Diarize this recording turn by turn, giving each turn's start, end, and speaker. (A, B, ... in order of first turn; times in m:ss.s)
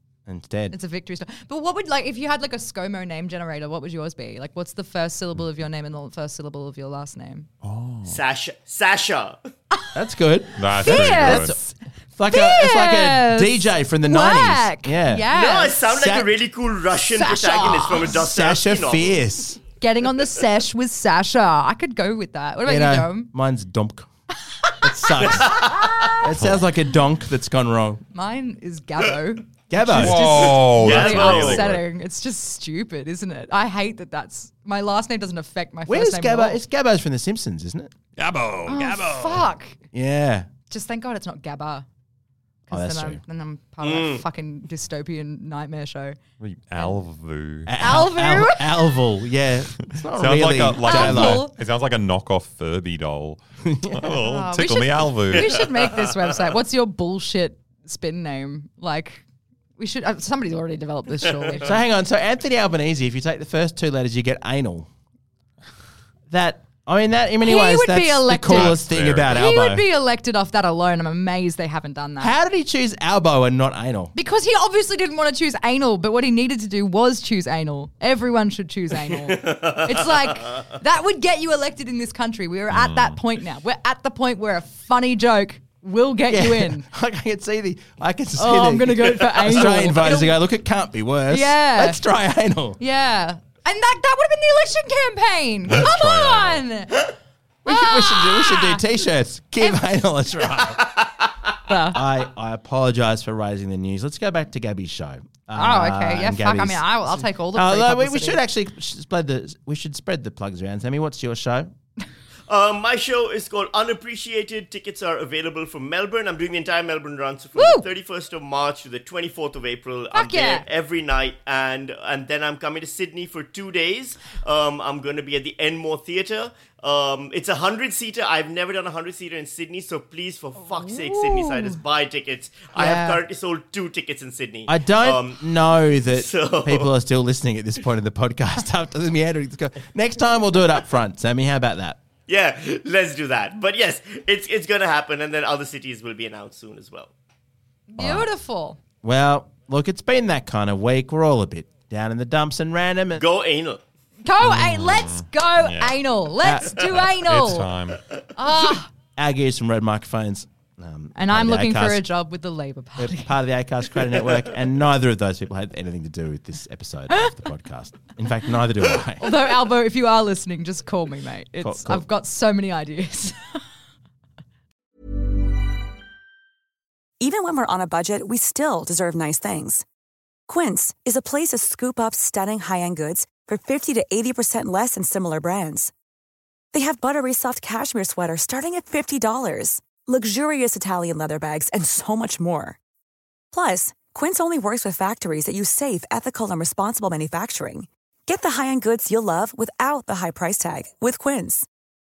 0:00.3-0:00.8 A
0:00.7-0:07.5 B
0:07.6-0:08.2 C
0:08.0-0:09.4 D
0:10.0-0:11.6 A
0:10.6-0:11.5 C
0:10.7-0:11.8 B
0:12.2-0:15.3 A
0:12.3-0:15.8 B
0:15.3-0:19.2 D
0:15.9-0:16.4 A
0:17.1-0:18.2 B
0:17.8-0:19.6 A
0:19.8-0:23.3 B
0:22.6-0:24.1 A
0:24.8-0:25.6 A
0:25.2-0:26.2 D
0:25.8-0:26.1 B
0:26.2-0:28.0 A
0:28.1-0:36.6 B
0:29.7-0:30.5 A
0:29.9-0:31.8 C
0:30.4-0:31.7 D
0:35.9-0:37.9 A
0:38.2-0:39.5 C
0:38.7-0:39.8 B
0:39.9-0:40.5 A
0:40.7-0:41.9 B
0:42.7-0:46.2 B
0:42.7-0:43.2 A
0:43.8-0:44.2 D
0:46.4-0:47.7 C
0:47.7-0:51.4 A
0:47.8-0:49.0 B
0:49.9-0:55.6 C
0:50.8-0:51.5 B
0:53.7-0:54.1 A
0:54.2-0:59.2 B
0:55.3-0:56.0 D
0:59.8-1:01.8 B
1:01.6-1:04.9 A
1:06.3-1:09.9 A
1:07.4-1:12.4 B
1:08.5-1:09.4 C
1:12.2-1:14.1 A
1:14.1-1:26.9 B
1:19.1-1:20.6 D
1:22.7-1:23.2 C
1:26.3-1:32.8 A
1:28.4-1:30.4 B
1:29.4-1:30.2 D
1:31.3-1:32.0 B
1:32.8-1:37.1 B
1:35.7-1:36.6 C
1:37.6-1:40.9 A
1:37.7-1:38.8 B
1:39.6-1:40.0 B
1:41.7-1:42.0 B
1:41.9-1:51.7 A
1:45.5-1:48.4 B
1:52.5-2:15.4 D
1:57.6-1:57.8 B
2:00.1-2:00.6 B
2:10.8-2:11.8 B
2:12.8-2:13.2 B
2:14.7-2:22.0 A
2:15.9-2:16.9 D
2:22.3-2:27.1 D
2:27.9-2:28.8 B
2:28.0-2:28.3 A
2:29.0-2:33.2 A
2:33.1-2:33.8 D
2:34.2-2:37.7 B
2:34.4-2:36.0 C
2:36.4-2:36.7 A
2:36.8-2:38.0 C
2:38.4-2:38.9 B
2:39.2-2:42.0 A
2:41.2-2:43.4 B
2:43.0-2:49.3 A
2:49.2-2:53.6 B
2:51.6-2:52.0 A
2:57.2-2:59.8 E
3:00.5-3:05.9 E
3:06.7-3:12.8 E
3:13.5-3:21.7 E